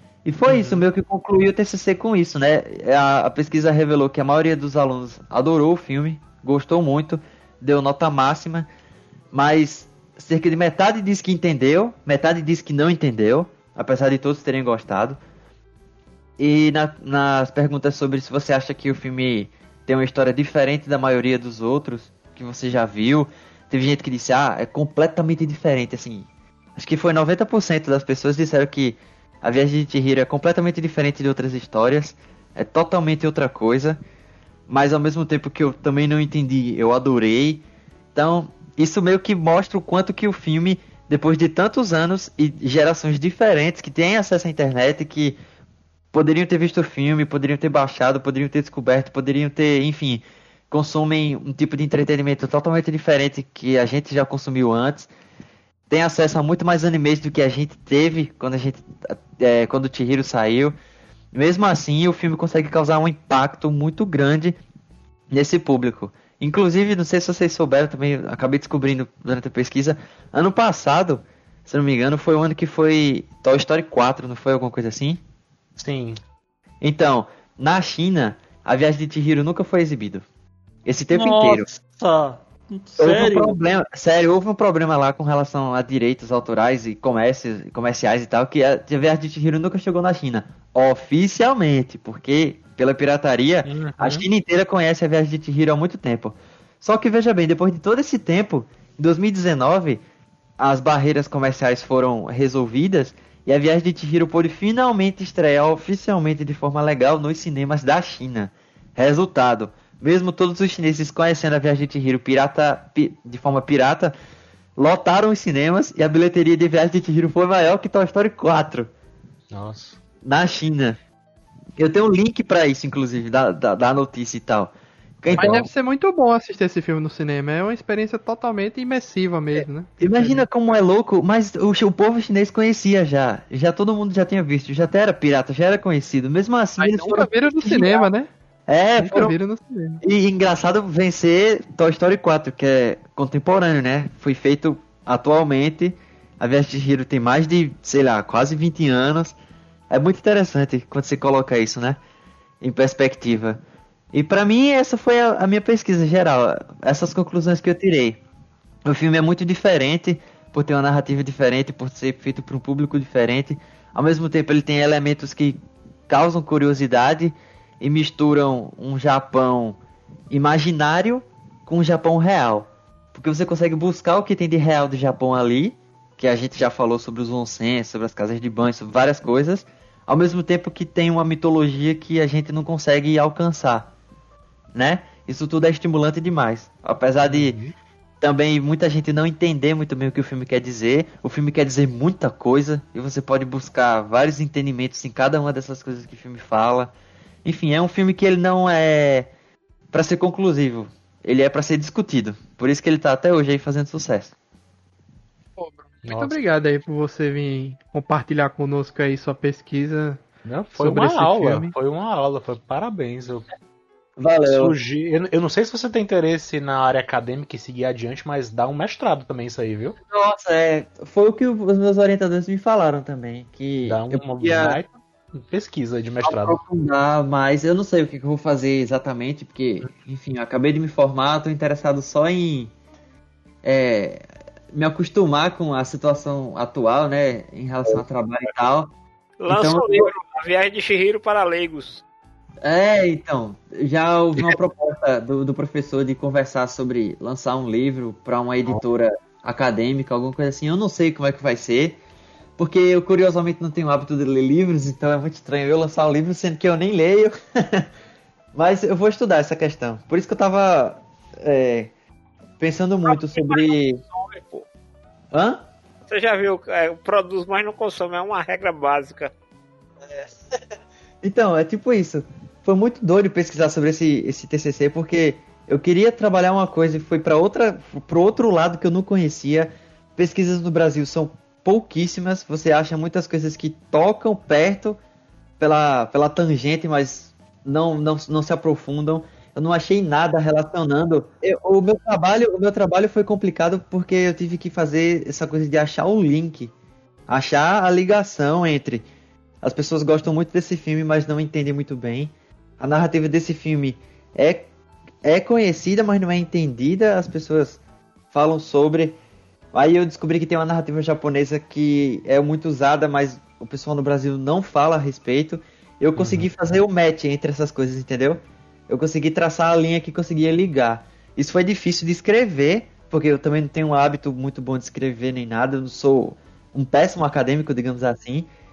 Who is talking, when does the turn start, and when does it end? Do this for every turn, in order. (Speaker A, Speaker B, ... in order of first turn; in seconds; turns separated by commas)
Speaker A: 0.2-8.7, Speaker B: 0.5-0.8, Speaker A: 9.3-15.2, Speaker A: 16.4-34.0, Speaker A: 34.7-45.4, Speaker A: 46.1-55.1, Speaker A: 55.9-60.8, Speaker A: 61.3-64.6, Speaker A: 65.3-75.2, Speaker B: 75.8-76.2, Speaker A: 76.8-80.3, Speaker A: 80.8-81.7, Speaker C: 81.1-83.6, Speaker A: 83.0-100.0, Speaker B: 93.7-94.3, Speaker A: 100.6-114.1, Speaker A: 114.8-118.9, Speaker B: 119.5-120.0, Speaker A: 120.2-121.0, Speaker A: 121.8-125.7, Speaker D: 125.3-130.4, Speaker B: 125.3-125.7, Speaker A: 129.6-138.1, Speaker D: 136.8-138.3, Speaker A: 138.7-139.3, Speaker D: 139.0-140.0, Speaker A: 140.0-149.4, Speaker A: 149.9-152.0, Speaker A: 152.6-153.6, Speaker A: 154.1-158.2, Speaker A: 158.8-169.8, Speaker A: 170.3-183.9, Speaker A: 184.8-187.6, Speaker B: 187.2-187.8, Speaker A: 188.2-196.9, Speaker A: 197.4-199.3, Speaker A: 199.9-204.3, Speaker D: 205.6-211.7, Speaker B: 206.1-206.4, Speaker B: 210.4-213.5, Speaker A: 214.2-214.8, Speaker B: 214.5-220.0, Speaker A: 220.1-224.8, Speaker B: 223.9-226.6, Speaker A: 226.2-232.7, Speaker A: 233.6-238.9, Speaker E: 239.4-242.0, Speaker A: 239.5-240.1, Speaker A: 242.6-252.0, Speaker A: 252.6-257.9, Speaker A: 258.5-261.9, Speaker A: 262.6-264.0, Speaker E: 263.1-264.6, Speaker A: 265.3-265.7, Speaker E: 266.1-269.3, Speaker A: 271.2-285.0, Speaker A: 285.6-296.7, Speaker A: 297.3-299.1, Speaker A: 299.6-304.7, Speaker A: 305.2-307.8, Speaker A: 308.3-309.2, Speaker A: 309.7-328.5, Speaker B: 316.2-316.5